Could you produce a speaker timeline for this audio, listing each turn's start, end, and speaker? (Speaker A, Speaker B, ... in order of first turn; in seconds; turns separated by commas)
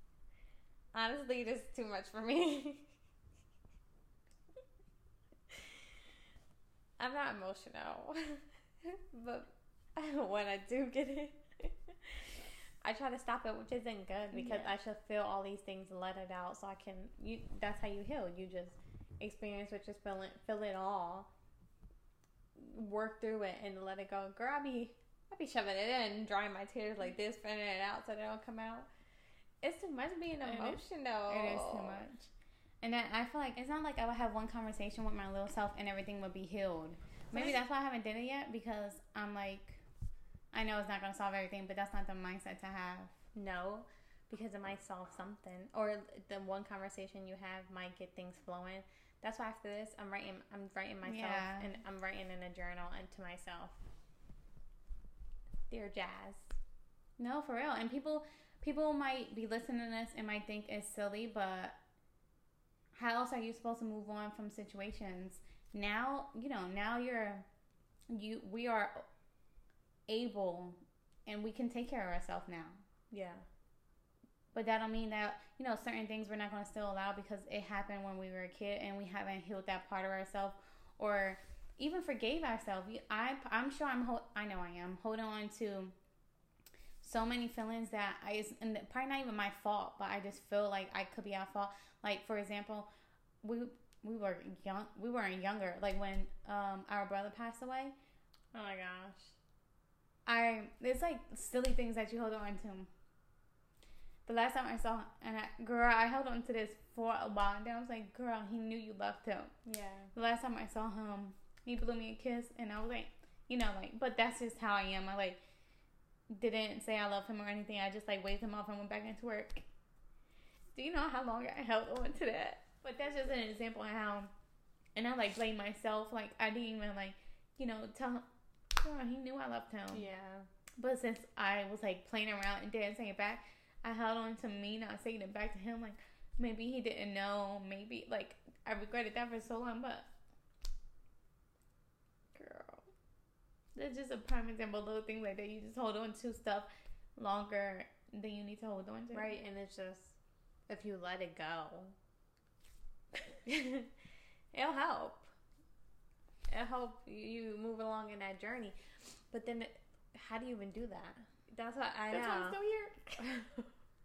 Speaker A: 0.9-2.9, Speaker A: 5.5-5.8, Speaker A: 7.0-21.3, Speaker B: 14.3-14.7, Speaker A: 22.5-28.9, Speaker A: 29.6-32.1, Speaker B: 30.4-32.3, Speaker B: 32.8-39.8, Speaker A: 37.3-37.6, Speaker B: 40.5-43.2, Speaker A: 43.3-53.8, Speaker B: 51.0-51.7, Speaker A: 55.7-56.5, Speaker B: 57.2-61.8, Speaker B: 62.9-67.5, Speaker B: 68.1-69.0, Speaker B: 70.1-72.8, Speaker A: 73.1-73.5, Speaker B: 74.5-85.9, Speaker B: 87.0-92.9, Speaker B: 93.4-97.9, Speaker A: 98.5-99.3, Speaker B: 100.2-102.9, Speaker B: 104.2-109.5, Speaker A: 109.6-110.1, Speaker B: 110.1-115.4, Speaker B: 116.3-119.7, Speaker B: 120.7-124.3, Speaker B: 125.0-128.2, Speaker B: 128.8-130.1, Speaker A: 129.9-130.5, Speaker B: 130.8-140.1, Speaker A: 142.3-142.8, Speaker B: 143.8-149.3, Speaker A: 149.1-150.2, Speaker A: 150.7-151.9, Speaker A: 153.1-153.9, Speaker A: 154.5-155.3, Speaker A: 156.5-158.8, Speaker A: 159.3-162.6, Speaker B: 162.1-163.2, Speaker A: 163.2-163.7